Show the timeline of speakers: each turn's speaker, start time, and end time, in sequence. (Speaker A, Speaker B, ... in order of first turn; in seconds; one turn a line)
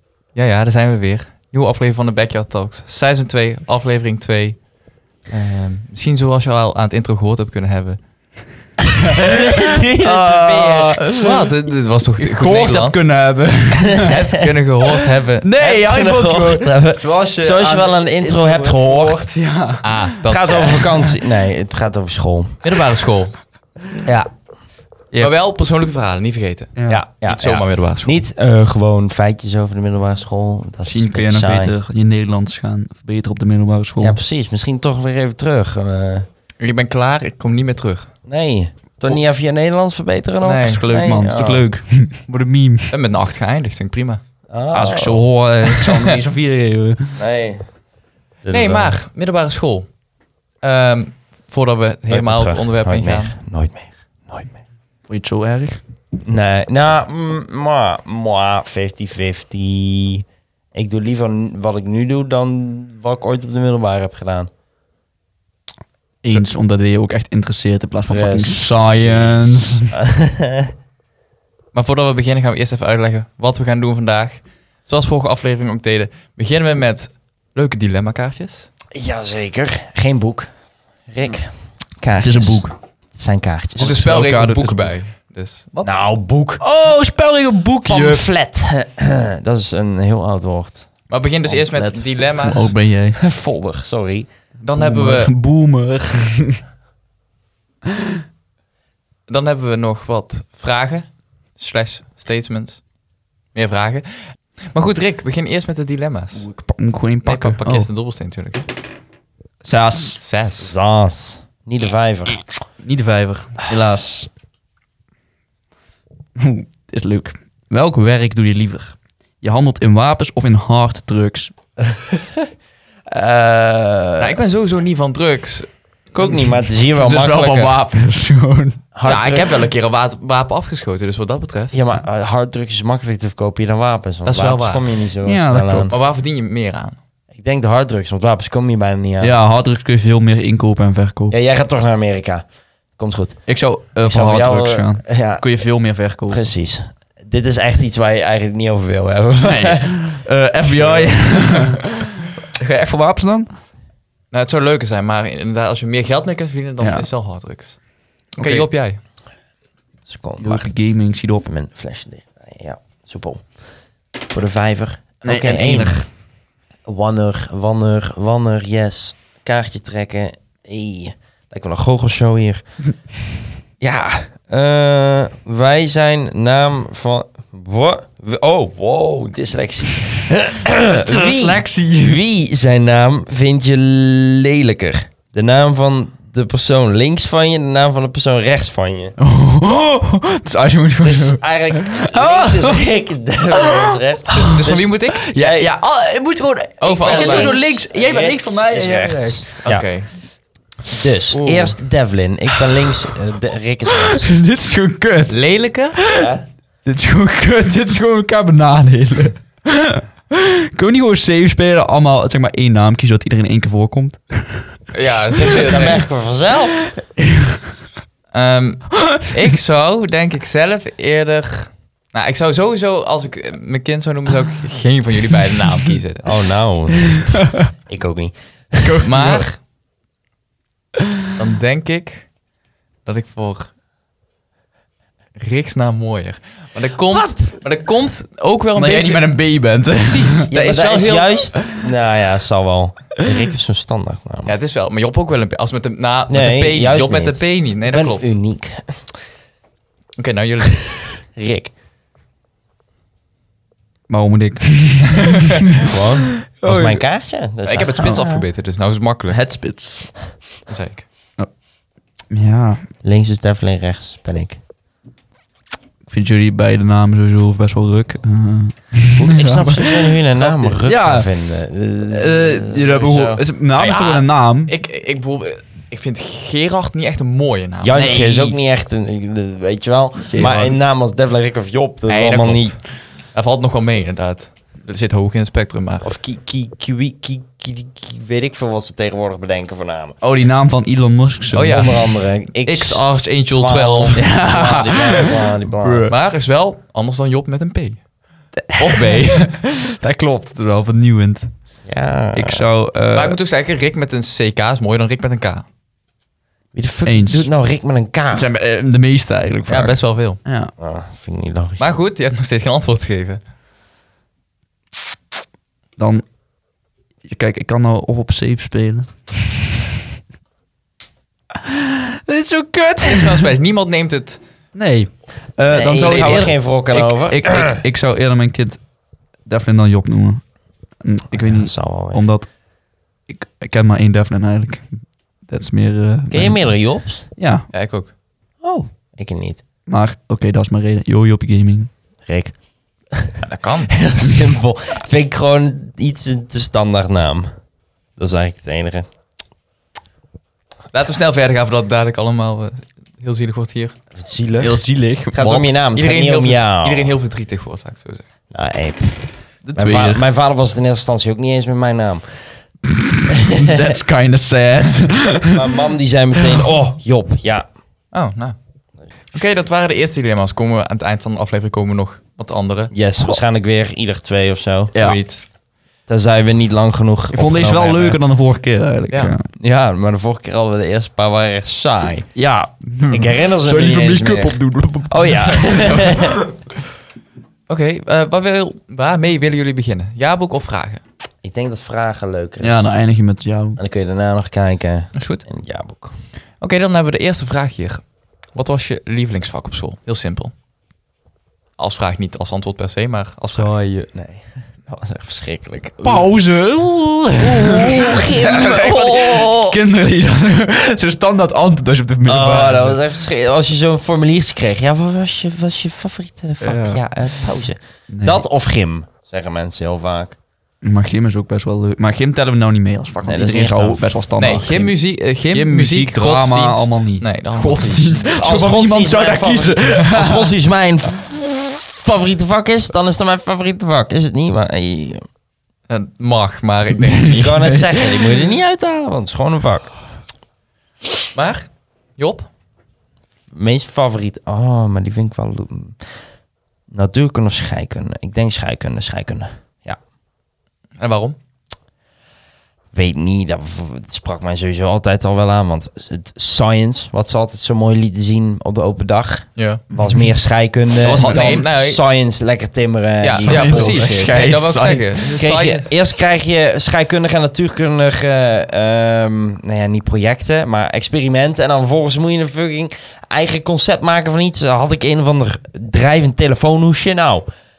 Speaker A: 0.3-4.7
Speaker A: 5.3-8.0
Speaker B: 9.1-11.3
Speaker C: 9.2-11.4
Speaker A: 11.2-13.0
Speaker C: 12.2-14.2
Speaker B: 13.8-14.4
Speaker A: 14.1-15.5
Speaker C: 15.4-20.3
Speaker B: 15.6-19.3
Speaker A: 19.8-20.9
Speaker B: 20.3-22.6
Speaker C: 20.8-21.1
Speaker A: 22.6-23.3
Speaker B: 24.0-24.3
Speaker A: 25.2-26.7
Speaker C: 26.8-27.0
Speaker B: 26.9-31.8
Speaker A: 27.3-28.2
Speaker C: 30.9-34.2
Speaker B: 34.0-36.3
Speaker A: 36.6-38.1
Speaker B: 38.3-41.6
Speaker A: 40.4-40.9
Speaker C: 40.6-42.9
Speaker A: 42.9-44.2
Speaker B: 44.5-45.2
Speaker C: 44.7-47.2
Speaker B: 47.2-47.7
Speaker B: 48.5-49.0
Speaker A: 48.5-49.9
Speaker A: 50.6-53.4
Speaker B: 52.1-54.6
Speaker C: 55.1-55.8
Speaker B: 56.2-64.5
Speaker C: 66.2-69.9
Speaker B: 68.1-70.7
Speaker A: 71.7-78.7
Speaker B: 78.9-80.5
Speaker B: 81.1-84.0
Speaker C: 82.2-82.8
Speaker A: 83.8-85.9
Speaker C: 83.8-84.9
Speaker B: 85.8-86.6
Speaker C: 86.6-88.3
Speaker B: 87.9-92.1
Speaker A: 91.1-92.7
Speaker C: 92.4-93.2
Speaker B: 93.2-94.3
Speaker A: 94.6-95.3
Speaker C: 94.8-96.6
Speaker C: 97.9-98.2
Speaker A: 99.3-102.8
Speaker A: 103.5-106.5
Speaker C: 106.5-107.9
Speaker A: 107.2-108.7
Speaker C: 109.6-110.2
Speaker A: 110.2-110.7
Speaker B: 110.6-112.4
Speaker C: 112.8-114.3
Speaker C: 116.4-121.5
Speaker B: 122.0-122.2
Speaker B: 123.1-124.4
Speaker A: 124.2-126.4
Speaker B: 126.1-127.7
Speaker C: 127.0-128.8
Speaker B: 128.9-129.5
Speaker A: 129.1-131.9
Speaker B: 131.7-136.0
Speaker A: 134.2-134.9
Speaker C: 135.2-135.9
Speaker A: 135.9-137.0
Speaker B: 137.3-139.3
Speaker C: 139.2-141.3
Speaker B: 141.3-142.4
Speaker B: 143.0-143.5
Speaker C: 143.5-146.4
Speaker B: 144.0-145.6
Speaker B: 146.3-151.8
Speaker C: 149.4-153.5
Speaker A: 154.3-157.8
Speaker C: 156.8-157.1
Speaker A: 158.3-159.0
Speaker C: 158.3-158.7
Speaker B: 160.1-160.7
Speaker C: 160.4-161.5
Speaker B: 161.4-163.6
Speaker B: 164.3-166.1
Speaker C: 165.2-166.0
Speaker B: 166.9-172.6
Speaker B: 173.8-189.2
Speaker C: 180.9-182.2
Speaker C: 189.2-192.8
Speaker B: 191.0-195.7
Speaker C: 193.5-199.5
Speaker A: 194.5-195.2
Speaker A: 196.8-197.5
Speaker B: 197.0-199.9
Speaker A: 199.6-200.1
Speaker B: 200.9-204.3
Speaker A: 201.3-201.8
Speaker C: 203.9-205.4
Speaker A: 205.3-206.0
Speaker C: 205.9-206.3
Speaker B: 206.1-206.4
Speaker C: 206.8-214.8
Speaker A: 214.9-216.0
Speaker C: 215.4-215.8
Speaker B: 215.5-216.9
Speaker C: 216.9-217.6
Speaker A: 218.3-226.3
Speaker B: 226.2-229.4
Speaker C: 227.2-227.7
Speaker C: 228.8-229.5
Speaker A: 229.0-229.6
Speaker A: 231.4-232.3
Speaker A: 233.1-233.7
Speaker A: 235.4-239.2
Speaker C: 238.8-240.5
Speaker A: 240.0-241.4
Speaker B: 240.5-244.5
Speaker A: 244.4-248.3
Speaker B: 246.3-249.1
Speaker A: 250.2-250.8
Speaker B: 250.8-251.7
Speaker C: 254.1-256.0
Speaker B: 255.8-258.4
Speaker A: 256.6-257.0
Speaker A: 257.6-259.4
Speaker C: 259.3-260.2
Speaker A: 260.7-261.1
Speaker C: 262.3-262.9
Speaker B: 263.0-264.6
Speaker C: 266.1-271.3
Speaker B: 269.2-273.4
Speaker C: 272.1-274.7
Speaker A: 273.7-278.6
Speaker B: 277.8-282.8
Speaker C: 278.0-278.3
Speaker C: 280.3-280.8
Speaker A: 282.1-286.1
Speaker B: 286.0-290.2
Speaker C: 290.2-291.9
Speaker A: 291.5-294.2
Speaker B: 291.7-296.1
Speaker C: 294.2-296.1
Speaker A: 296.1-298.0
Speaker C: 298.6-301.5
Speaker A: 298.8-299.6
Speaker B: 301.9-302.6
Speaker C: 302.3-303.4
Speaker A: 303.1-305.7
Speaker B: 306.7-308.5
Speaker C: 307.1-307.5
Speaker C: 308.3-310.7
Speaker A: 309.7-310.4
Speaker B: 310.8-311.9
Speaker A: 311.8-313.4
Speaker C: 316.0-316.2
Speaker C: 317.2-319.7
Speaker C: 321.5-323.5
Speaker A: 323.0-324.4
Speaker C: 324.7-328.8
Speaker B: 325.7-327.8
Speaker C: 329.5-330.4
Speaker C: 331.0-332.5
Speaker B: 331.3-332.2
Speaker C: 333.3-336.6
Speaker B: 336.3-337.2
Speaker C: 337.4-337.7
Speaker A: 337.7-338.1
Speaker B: 338.6-339.6
Speaker C: 339.9-341.9
Speaker B: 342.3-342.6
Speaker B: 343.1-347.5
Speaker A: 343.4-343.9
Speaker B: 348.2-349.1
Speaker A: 350.9-354.0
Speaker B: 354.1-357.1
Speaker C: 354.6-355.7
Speaker A: 355.9-358.2
Speaker B: 358.5-362.4
Speaker C: 359.6-360.2
Speaker C: 362.9-365.8
Speaker B: 363.4-363.9
Speaker B: 365.5-367.7
Speaker C: 366.4-366.7
Speaker A: 368.1-368.6
Speaker A: 369.3-372.9
Speaker B: 372.9-374.9
Speaker C: 374.9-375.2
Speaker A: 374.9-375.4
Speaker B: 376.1-378.2
Speaker C: 377.3-379.5
Speaker B: 379.6-382.3
Speaker C: 382.4-386.4
Speaker B: 383.1-386.4
Speaker A: 387.7-391.0
Speaker B: 391.4-392.9
Speaker C: 392.6-393.8
Speaker B: 393.8-396.1
Speaker A: 395.1-395.4
Speaker A: 396.6-400.5
Speaker A: 401.8-403.7
Speaker B: 403.5-406.3
Speaker C: 406.0-413.0
Speaker B: 407.4-409.8
Speaker B: 412.3-420.4
Speaker C: 416.6-417.4
Speaker C: 418.1-418.4
Speaker C: 420.8-424.9
Speaker B: 423.2-424.6
Speaker A: 424.4-428.5
Speaker C: 425.5-430.6
Speaker B: 427.9-435.3
Speaker A: 435.9-437.7
Speaker C: 436.9-438.4
Speaker B: 437.3-440.0
Speaker A: 441.3-442.5
Speaker B: 443.5-446.0
Speaker B: 446.9-450.0
Speaker A: 451.0-451.4
Speaker B: 452.9-464.5
Speaker A: 459.6-459.8
Speaker C: 461.0-461.6
Speaker A: 461.0-462.0
Speaker A: 463.2-465.9
Speaker C: 463.3-465.2
Speaker B: 465.3-477.5